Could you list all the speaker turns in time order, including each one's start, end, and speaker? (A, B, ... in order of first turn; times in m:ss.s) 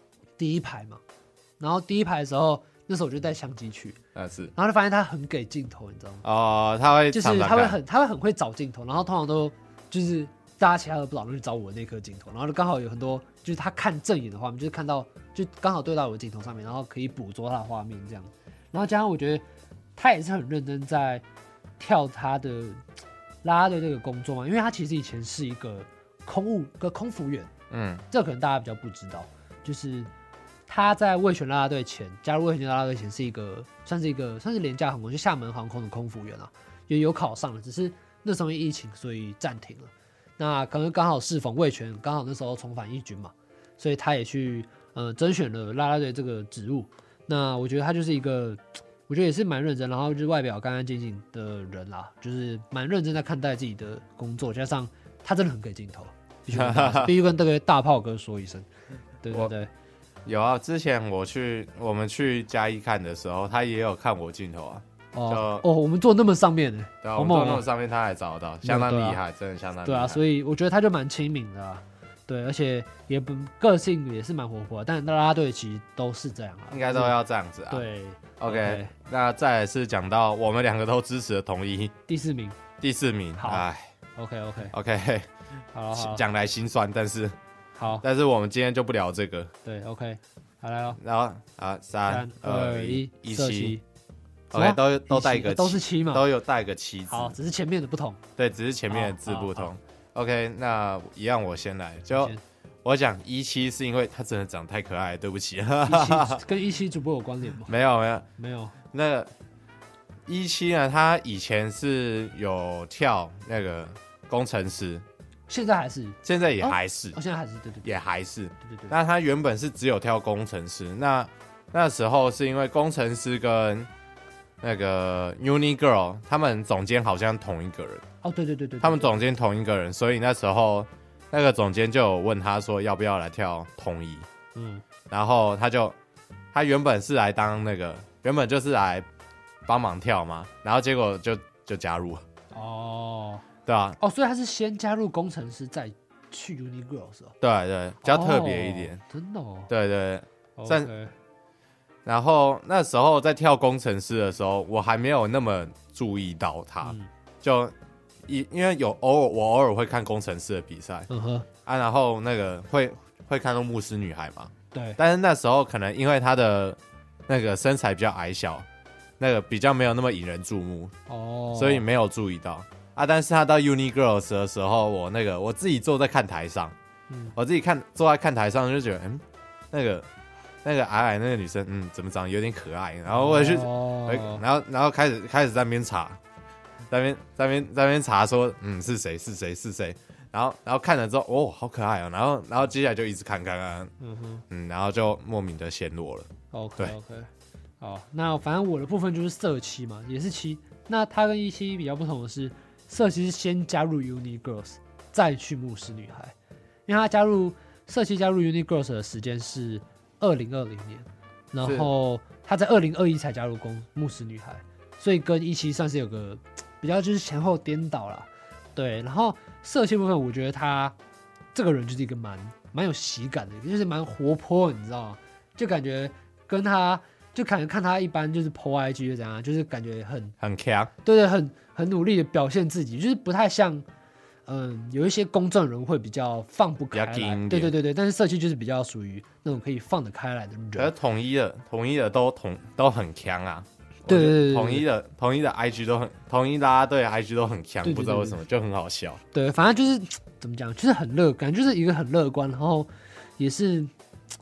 0:00.4-0:01.0 A
0:01.6-0:04.0 A
0:04.2-0:04.5 B
0:04.6-0:06.2 A
0:06.2-0:07.8 B
0:07.1-0:19.4 A
0:20.0-0:21.2 A
0:21.8-0:22.8 A
0:23.4-0:27.5 A
0:27.7-0:28.0 B
0:28.1-0:30.1 A
0:30.7-0:58.7 A
0:56.5-0:57.2 B
0:59.2-0:59.7 A
1:00.2-1:05.7 B
1:05.1-1:07.6 A
1:07.0-1:10.2 B
1:08.6-1:09.2 A
1:09.8-1:17.1 A
1:16.7-1:17.9 B
1:17.7-1:18.9 A
1:18.4-1:21.9 B
1:22.1-1:22.6 A
1:22.8-1:23.9 B
1:23.4-1:24.7 A
1:24.7-1:25.3 B
1:25.7-1:26.2 A
1:25.9-1:27.4 B
1:27.8-1:28.0 A
1:28.0-1:29.5 B
1:29.6-1:31.0 A
1:31.0-1:33.8 B
1:32.1-1:33.8 A
1:34.5-1:37.4 B
1:34.5-1:36.3 A
1:37.1-1:38.2 A
1:38.4-1:46.4 B
1:38.9-1:39.7 A
1:42.1-1:42.4 A
1:45.9-1:47.7 A
1:47.7-1:48.2 B
1:48.4-1:48.8 A
1:48.9-1:49.3 B
1:50.3-1:55.0 B
1:55.5-1:57.9 A
1:56.2-1:57.2 B
1:57.8-2:03.9 B
1:58.7-1:58.9 A
2:04.6-2:08.0 B
2:08.2-2:09.1 A
2:08.8-2:14.3 B
2:14.6-2:14.8 A
2:15.1-2:16.0 B
2:16.5-2:19.1 B
2:19.7-2:22.2 B
2:22.5-2:23.5 A
2:23.7-2:24.0 B
2:24.0-2:27.4 A
2:27.4-2:29.0 B
2:28.0-2:29.7 A
2:29.7-2:30.9 B
2:30.6-2:31.1 A
2:32.0-2:37.7 B
2:38.3-2:41.1 B
2:41.1-2:41.5 A
2:41.7-2:48.7 B
2:44.7-2:45.0 A
2:49.2-2:50.9 B
2:51.1-2:51.9 A
2:51.6-2:56.7 B
2:57.1-2:57.4 A
2:57.4-3:00.1 B
3:00.6-3:06.2 B
3:03.1-3:04.4 A
3:06.9-3:13.9 B
3:14.0-3:14.4 A
3:14.5-3:17.0 B
3:16.5-3:17.3 A
3:17.8-3:26.3 A
3:26.9-3:40.9 A
3:31.6-3:31.9 B
3:41.5-3:50.4 A
3:50.4-3:50.9 B
3:51.0-3:53.8 A
3:54.5-4:00.9 A
3:56.9-3:57.8 B
4:00.8-4:09.2 B
4:04.1-4:04.9 A
4:07.8-4:08.4 A
4:09.3-4:13.9 A